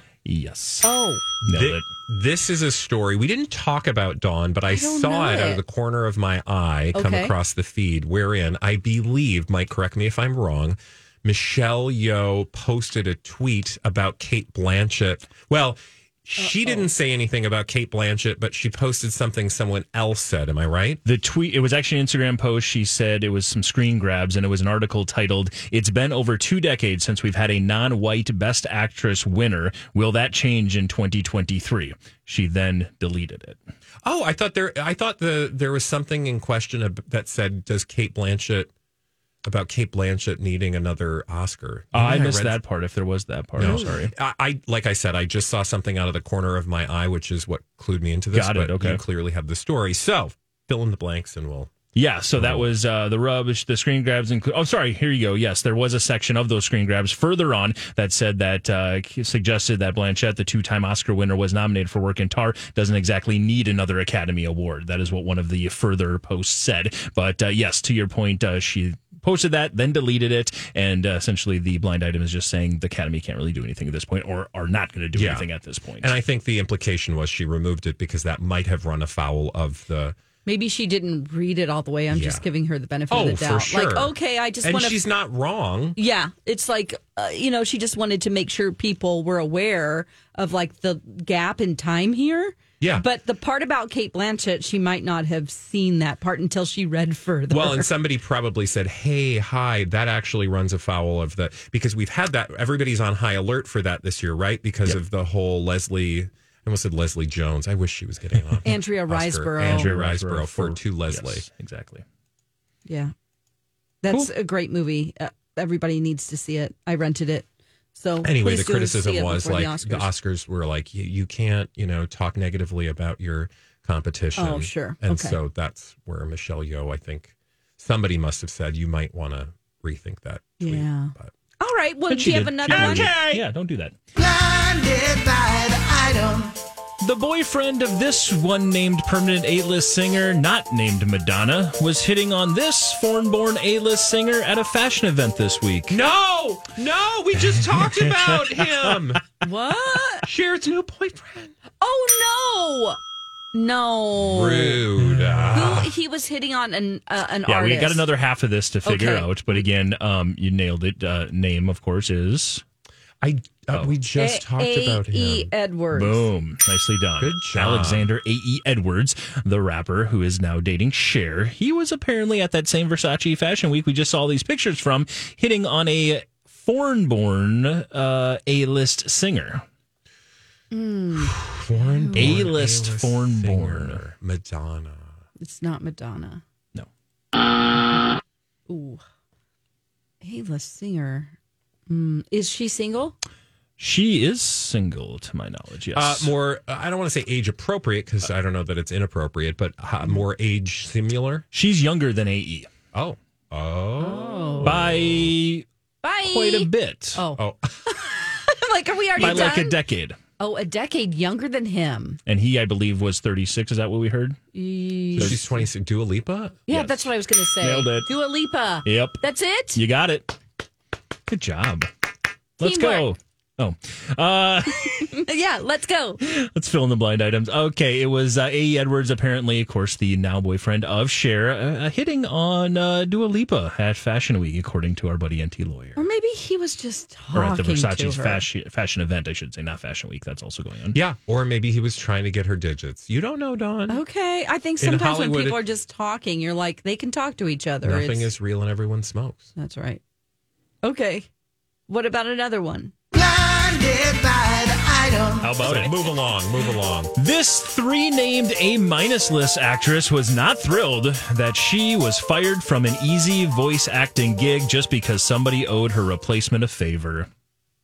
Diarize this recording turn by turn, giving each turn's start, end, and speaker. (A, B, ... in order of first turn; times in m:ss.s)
0:00.2-0:00.9 A
0:00.8-0:01.2 B
0:01.4-0:21.0 C
0:01.4-0:01.9 A
0:04.7-0:05.6 B
0:06.9-0:07.3 B
0:16.4-0:16.9 B
0:21.0-0:33.6 A
0:34.0-0:38.7 C
0:39.4-0:42.6 C
0:41.9-0:44.1 A
0:43.6-0:51.7 C
0:48.3-0:49.0 A
0:51.9-1:16.1 A
0:52.4-0:52.7 C
1:15.1-1:15.5 C
1:16.0-1:20.2 C
1:20.4-1:25.0 B
1:22.1-1:22.4 C
1:23.1-1:26.0 C
1:26.0-1:37.9 B
1:32.8-1:33.0 C
1:37.5-1:51.5 C
1:48.6-1:49.9 B
1:49.6-1:52.0 A
1:52.8-1:53.1 B
1:54.0-2:00.1 B
1:58.2-2:11.3 C
2:04.4-2:05.4 B
2:10.6-2:13.3 B
2:12.1-2:14.0 A
2:12.7-2:13.4 C
2:14.2-2:16.6 D
2:17.0-2:26.0 A
2:25.9-2:29.2 C
2:27.4-2:28.6 A
2:29.4-2:30.3 B
2:30.2-2:31.5 C
2:31.8-2:33.0 B
2:33.5-2:34.9 B
2:34.2-2:35.9 C
2:35.0-2:35.8 A
2:35.5-2:38.1 B
2:37.4-2:42.6 A
2:38.8-2:39.5 B
2:43.2-2:45.5 C
2:43.7-2:44.0 A
2:44.1-2:46.3 B
2:45.9-2:59.6 A
2:47.2-2:48.1 C
3:00.7-3:02.5 B
3:01.1-3:05.1 C
3:02.1-3:04.0 A
3:05.4-3:06.4 B
3:08.7-3:09.0 B
3:10.2-3:11.3 B
3:11.9-3:13.2 B
3:13.8-3:16.3 A
3:15.9-3:21.4 C
3:21.5-3:22.7 A
3:22.9-3:25.3 C
3:24.0-3:24.8 B
3:24.6-3:25.6 A
3:26.0-3:29.8 B
3:26.2-3:27.2 A
3:27.4-3:27.7 C
3:29.2-3:29.6 C
3:29.2-3:30.2 A
3:30.4-3:32.2 B
3:32.2-3:34.4 A
3:34.5-3:35.4 B
3:35.1-3:35.5 A
3:35.2-3:36.7 C
3:36.7-3:39.8 B
3:36.7-3:37.0 A
3:37.6-3:38.1 A
3:38.8-3:39.2 A
3:39.7-3:40.4 A
3:41.3-3:41.9 A
3:42.6-3:45.0 A
3:42.6-3:43.1 B
3:44.9-3:46.2 B
3:46.2-3:56.0 A
3:56.0-3:58.4 B
3:57.3-4:01.0 A
4:00.9-4:04.0 C
4:03.9-4:08.3 B
4:04.8-4:05.6 C
4:07.8-4:09.5 C
4:09.6-4:10.0 B
4:10.8-4:11.3 B
4:11.9-4:12.9 B
4:13.1-4:15.5 D
4:15.4-4:16.0 A
4:15.6-4:17.1 C
4:17.2-4:27.3 A